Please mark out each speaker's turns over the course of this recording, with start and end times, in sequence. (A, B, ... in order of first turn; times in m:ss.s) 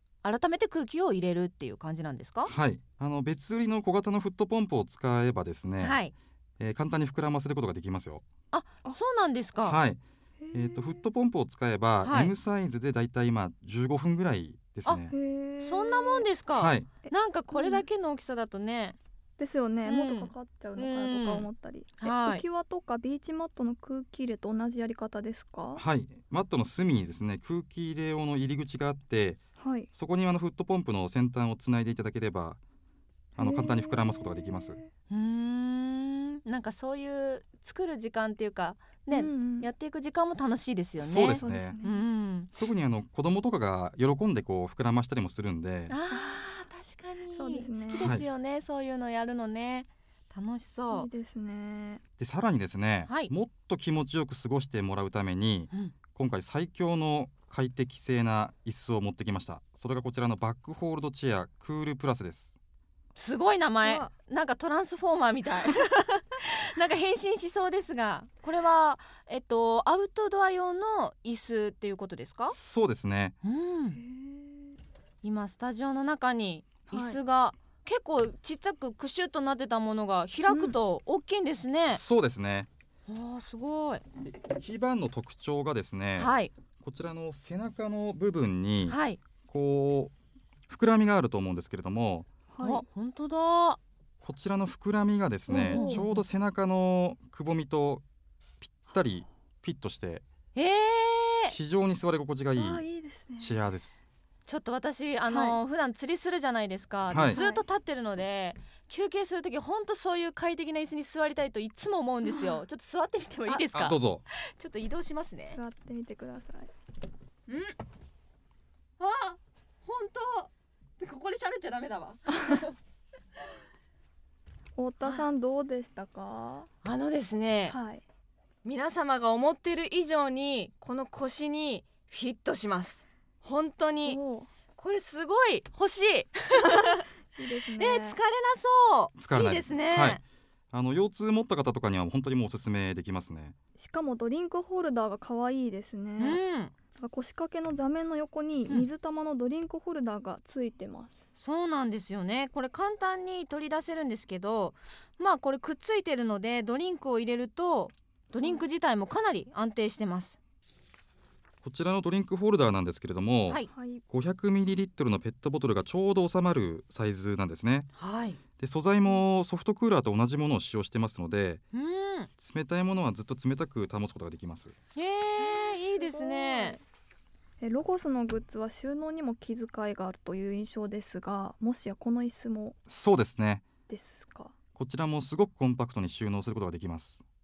0:00.2-0:02.5 A
0:02.4-0:06.0 B
0:05.8-0:06.1 A
0:06.6-0:08.2 B
0:08.5-0:09.8 A
0:09.6-0:10.0 B
0:10.4-0:11.0 C
0:10.5-0:15.1 B
0:12.0-0:12.3 A
0:15.1-0:16.3 C
0:15.6-0:19.0 A
0:16.5-0:16.9 B
0:17.0-0:17.8 C
0:19.4-0:25.8 C
0:19.8-0:21.5 A
0:22.0-0:22.4 A
0:25.8-0:29.4 B
0:29.6-0:29.9 C
0:29.9-0:32.6 B
0:33.4-0:34.8 B
0:33.4-0:34.9 C
0:35.1-0:42.5 A
0:39.1-0:39.7 C
0:41.0-0:41.8 B
0:41.1-0:42.0 C
0:42.6-0:45.9 B
0:45.9-0:51.1 A
0:46.1-0:46.4 C
0:47.3-0:48.1 C
0:48.0-0:48.2 B
0:50.9-0:52.0 C
0:52.2-1:02.5 B
1:03.1-1:12.6 A
1:03.8-1:04.1 C
1:12.5-1:13.3 B
1:13.4-1:14.0 A
1:13.9-1:14.7 C
1:15.2-1:22.0 A
1:16.9-1:17.2 C
1:20.5-1:20.8 C
1:21.9-1:22.7 B
1:23.1-1:24.0 A
1:24.2-1:30.1 B
1:26.2-1:26.5 A
1:28.9-1:29.2 A
1:30.7-1:32.3 B
1:32.5-1:32.8 C
1:32.6-1:33.8 A
1:34.2-1:38.0 B
1:35.5-1:36.1 C
1:35.7-1:36.2 A
1:38.6-1:40.2 B
1:40.5-1:41.5 A
1:41.5-1:42.8 B
1:42.6-1:43.6 C
1:43.4-1:44.0 B
1:44.5-1:55.6 A
1:45.3-1:45.6 C
1:47.1-1:47.4 B
1:47.3-1:47.6 C
1:52.2-1:52.6 C
1:53.7-1:54.2 B
1:55.5-1:56.7 C
1:57.5-1:57.7 A
1:59.0-2:02.7 A
2:04.8-2:06.7 C
2:06.8-2:07.8 A
2:07.7-2:08.0 C
2:08.6-2:14.2 A
2:14.0-2:14.5 C
2:14.8-2:17.0 A
2:16.6-2:18.2 C
2:17.8-2:20.2 A
2:19.2-2:23.5 B
2:23.8-2:26.4 C
2:26.2-2:26.7 A
2:27.0-2:31.2 C
2:31.4-2:40.4 A
2:41.6-2:47.9 B
2:43.7-2:44.0 C
2:48.0-2:48.4 A
2:48.6-2:51.6 B
2:51.7-2:52.3 A
2:52.4-2:54.7 B
2:54.9-2:56.8 A
2:55.4-2:56.8 C
2:57.6-3:02.8 C
3:02.9-3:03.6 B
3:03.9-3:04.5 C
3:04.7-3:07.2 B